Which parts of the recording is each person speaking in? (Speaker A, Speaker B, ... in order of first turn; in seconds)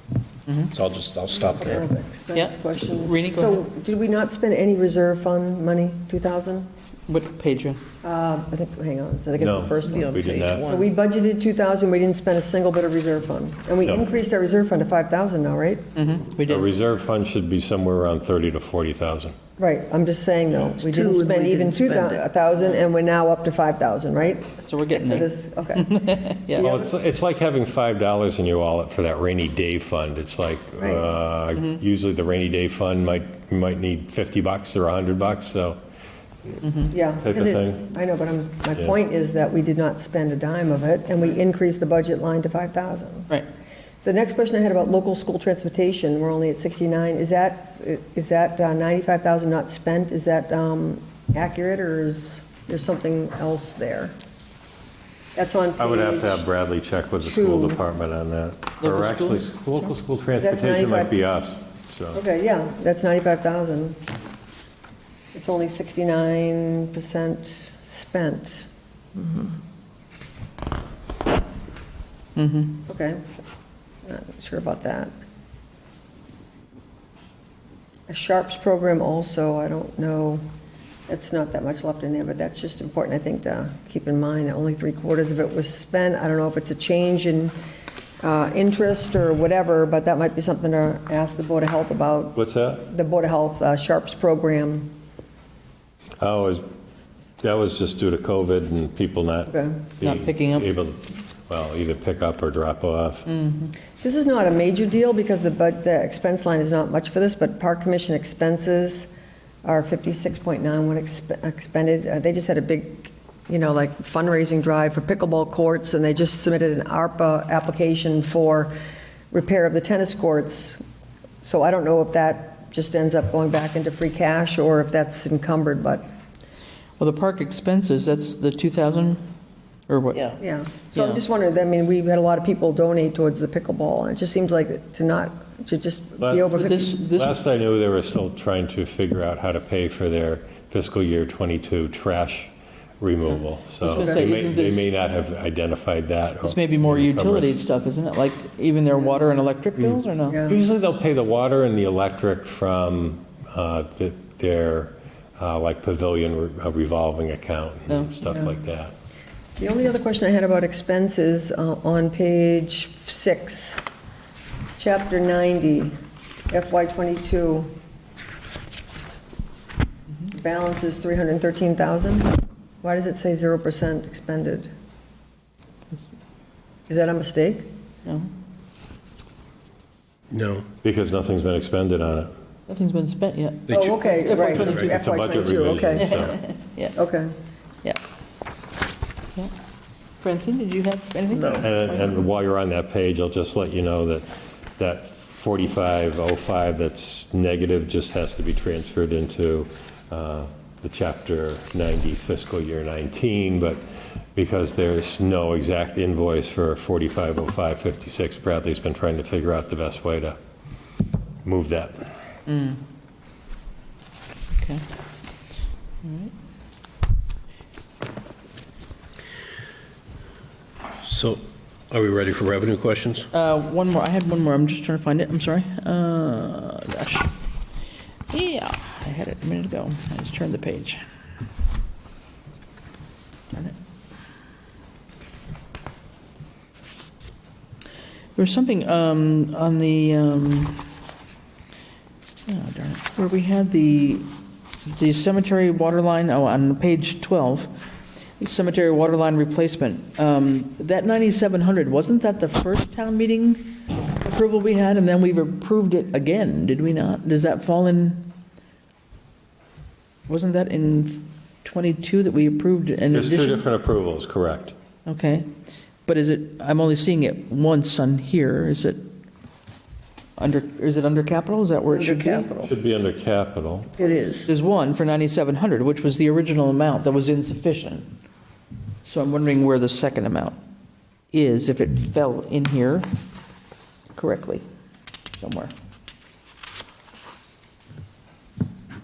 Speaker A: 0.7-1.9, 180.3-180.7, 183.7-184.9, 221.0-223.3
Speaker B: 1.6-6.7, 8.0-15.8, 19.6-25.9, 26.5-26.9, 30.8-31.1, 36.9-43.3, 44.0-54.1, 55.3-56.5, 57.2-57.8, 60.4-61.2, 62.1-64.0, 65.3-68.7, 72.8-73.2, 74.0-75.1, 78.1-80.4, 81.1-87.5, 88.2-94.9, 99.5-99.8, 104.0-109.1, 109.6-118.7, 119.3-120.8, 121.4-126.0, 130.4-137.0, 143.9-144.3, 150.3-150.6, 159.6-163.8, 164.8-165.9, 166.5-167.7, 170.3-174.7, 176.9-177.7, 183.7-186.1, 186.9-187.3
Speaker C: 2.3-3.6, 7.1-7.8, 15.9-16.7, 24.6-26.6, 36.6-36.9, 58.8-59.4, 72.3-72.8, 100.0-100.7, 103.3-103.7, 127.0-129.2, 129.9-131.2, 136.5-137.4, 143.3-144.9, 146.4-150.4, 157.9-158.2, 182.7-185.0, 186.0-186.9, 190.2-192.2, 212.5-212.8, 214.5-214.8, 216.0-216.3, 223.3-227.3, 228.3-231.0, 238.3-240.9, 242.5-244.3, 244.8-247.7, 248.4-258.3, 260.3-263.6, 265.1-265.5, 266.1-269.1, 270.4-272.5, 274.4-278.1, 279.0-280.6, 281.3-283.1, 284.1-284.6, 285.4-285.7
Speaker D: 9.4-10.8, 16.5-19.4, 26.6-35.8, 37.1-37.9, 55.8-62.2, 92.3-92.9, 96.2-96.6, 97.4-103.3, 136.2-136.5, 137.1-147.6, 150.4-158.9, 180.8-182.3, 184.8-186.4, 191.5-203.8, 204.3-210.4, 211.4-212.1, 263.1-264.7, 272.6-273.9
Speaker E: 9.8-10.9, 20.6-22.2, 271.8-272.7, 274.0-274.5